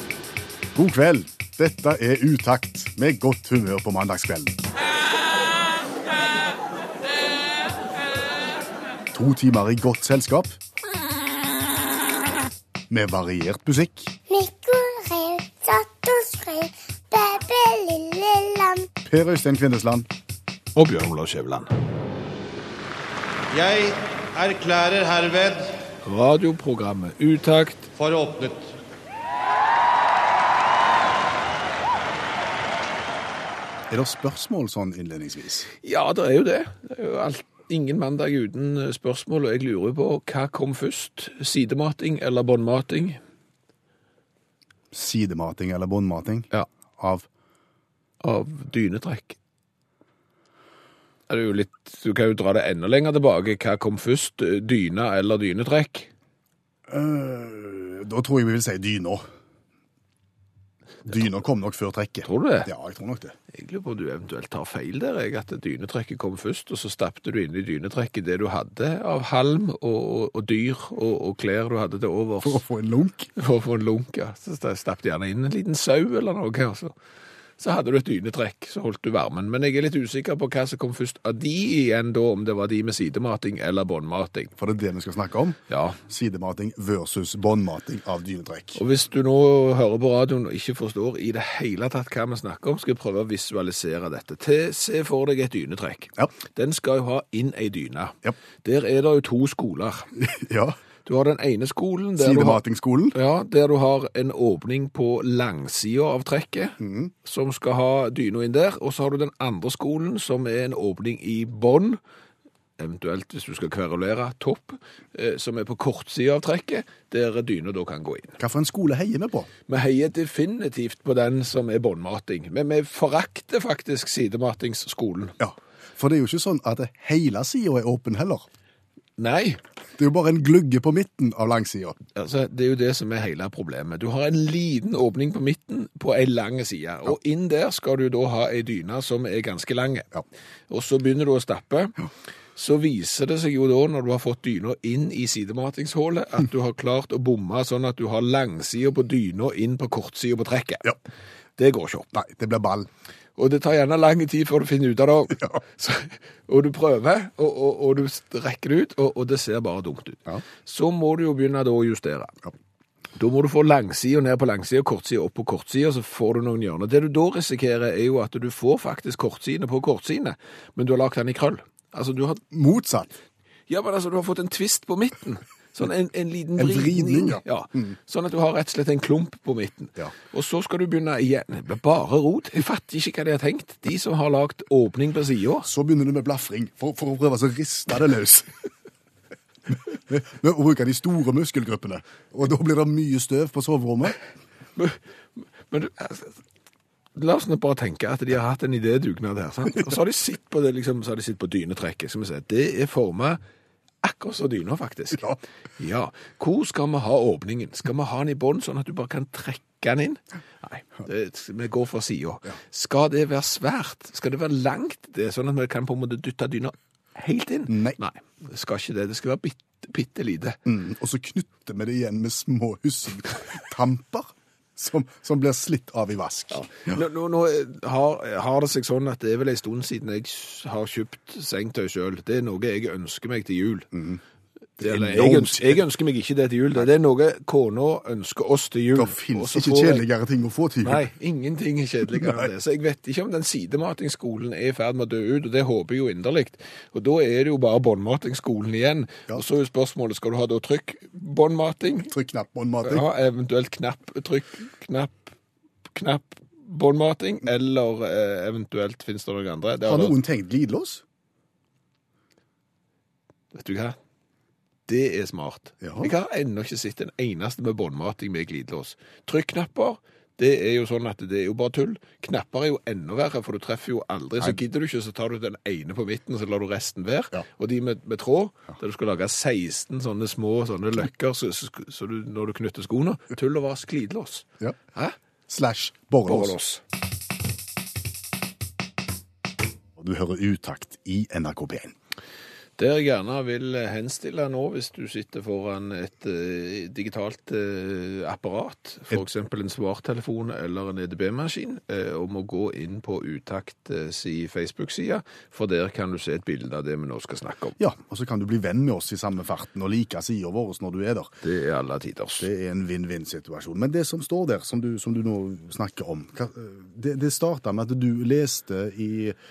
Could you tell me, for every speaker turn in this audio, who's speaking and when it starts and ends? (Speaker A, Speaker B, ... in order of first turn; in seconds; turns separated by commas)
Speaker A: 0.8-4.6, Speaker A: 9.1-10.6, Speaker A: 12.9-14.1, Speaker B: 14.3-18.9, Speaker A: 19.0-20.1, Speaker C: 20.8-21.7, Speaker D: 23.6-23.9, Speaker D: 24.4-25.6, Speaker C: 26.0-27.9, Speaker D: 28.0-28.6, Speaker A: 33.9-35.7, Speaker C: 35.8-43.2, Speaker A: 44.9-47.3, Speaker C: 48.2-49.4, Speaker C: 51.3-56.1, Speaker A: 56.9-59.2, Speaker A: 61.1-63.4, Speaker C: 62.2-62.7, Speaker C: 63.5-72.6, Speaker A: 72.4-73.3, Speaker C: 73.4-76.9, Speaker C: 77.6-84.5, Speaker A: 84.6-88.8, Speaker C: 85.7-86.0, Speaker C: 88.8-100.1, Speaker A: 100.2-100.8, Speaker C: 101.1-102.6, Speaker A: 102.2-103.2, Speaker C: 103.1-112.0, Speaker A: 106.8-107.1, Speaker C: 112.8-118.4, Speaker A: 118.4-119.5, Speaker C: 119.7-125.4, Speaker A: 125.4-128.4, Speaker C: 129.2-129.6, Speaker A: 130.0-132.0, Speaker C: 132.2-140.1, Speaker C: 140.7-141.9, Speaker C: 142.6-150.9, Speaker C: 151.6-152.1, Speaker A: 152.1-152.9, Speaker C: 153.4-162.4, Speaker C: 163.2-172.4, Speaker A: 172.5-173.1, Speaker C: 173.7-185.7, Speaker A: 176.6-178.0, Speaker A: 185.6-188.5, Speaker A: 189.7-194.2, Speaker C: 194.8-196.4, Speaker C: 197.2-203.4, Speaker C: 204.0-220.6, Speaker A: 217.7-218.0, Speaker A: 220.7-227.0, Speaker C: 226.5-233.9, Speaker A: 233.9-234.2, Speaker A: 234.8-235.8, Speaker C: 234.8-240.0, Speaker A: 238.9-241.1, Speaker C: 240.8-252.1, Speaker A: 242.1-242.5, Speaker A: 252.1-253.1, Speaker C: 252.8-255.3, Speaker C: 255.9-260.2, Speaker A: 259.9-261.0, Speaker C: 263.5-264.0, Speaker C: 264.9-285.2, Speaker A: 265.8-266.1, Speaker A: 285.5-286.6, Speaker C: 286.3-286.8, Speaker A: 290.0-291.9, Speaker C: 292.8-307.8, Speaker A: 307.8-311.3, Speaker C: 311.4-312.5, Speaker A: 312.4-319.4